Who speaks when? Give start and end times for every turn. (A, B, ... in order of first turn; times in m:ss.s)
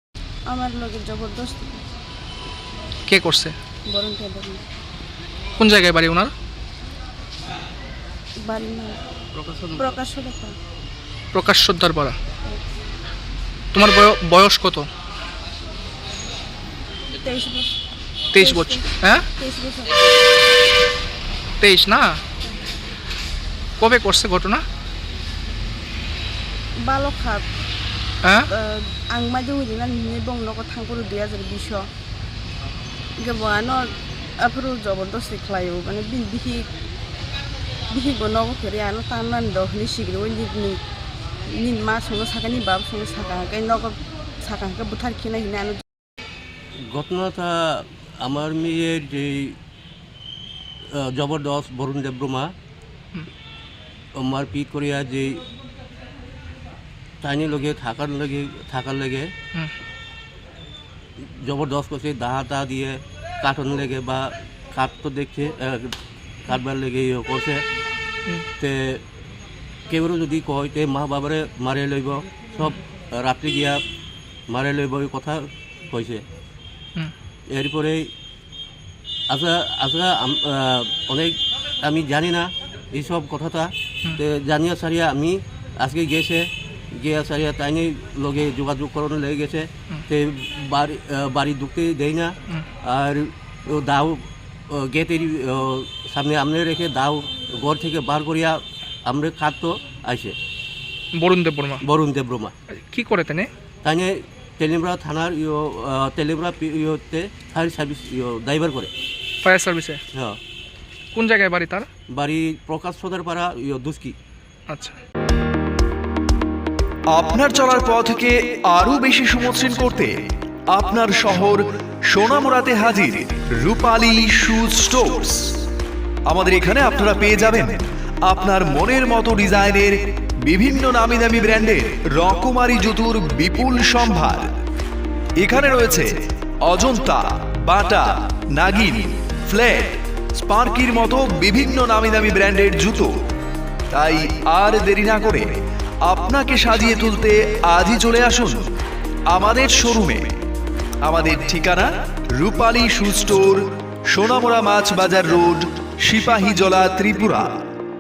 0:00.5-0:01.9 A
0:03.1-0:03.6 B
0:03.9-0:04.6 A
0:05.6-0:06.3 B
0:08.4-0:10.6 A
0:11.3-0:12.2 B
0:13.7-0:14.9 B
0:17.1-0:17.7 A
0:18.3-0:19.3 B
0:18.4-0:20.1 A
0:21.6-0:22.2 B
0:23.8-0:24.6 B
0:26.8-0:27.5 A
0:28.2-0:28.5 B
0:28.5-0:31.9 A
0:33.2-0:36.7 A
0:37.9-0:40.8 A
0:41.5-0:45.8 A
0:46.9-0:49.6 C
0:50.9-0:52.5 C
0:54.2-0:55.4 C
0:57.2-0:59.3 C
1:01.2-1:07.6 C
1:08.6-1:09.0 C
1:09.9-1:13.8 C
1:14.5-1:16.2 C
1:17.5-1:18.1 C
1:19.3-1:40.4 C
1:41.1-1:41.8 B
1:41.8-1:42.5 C
1:42.7-1:43.5 B
1:43.8-1:48.9 C
1:49.4-1:50.0 B
1:50.1-1:50.4 C
1:51.1-1:51.9 B
1:52.1-1:54.2 C
1:54.7-1:55.0 B
1:57.1-2:05.6 D
2:06.3-2:14.6 D
2:15.4-2:23.1 D
2:23.9-2:28.7 D
2:29.3-2:30.4 D
2:31.0-2:37.6 D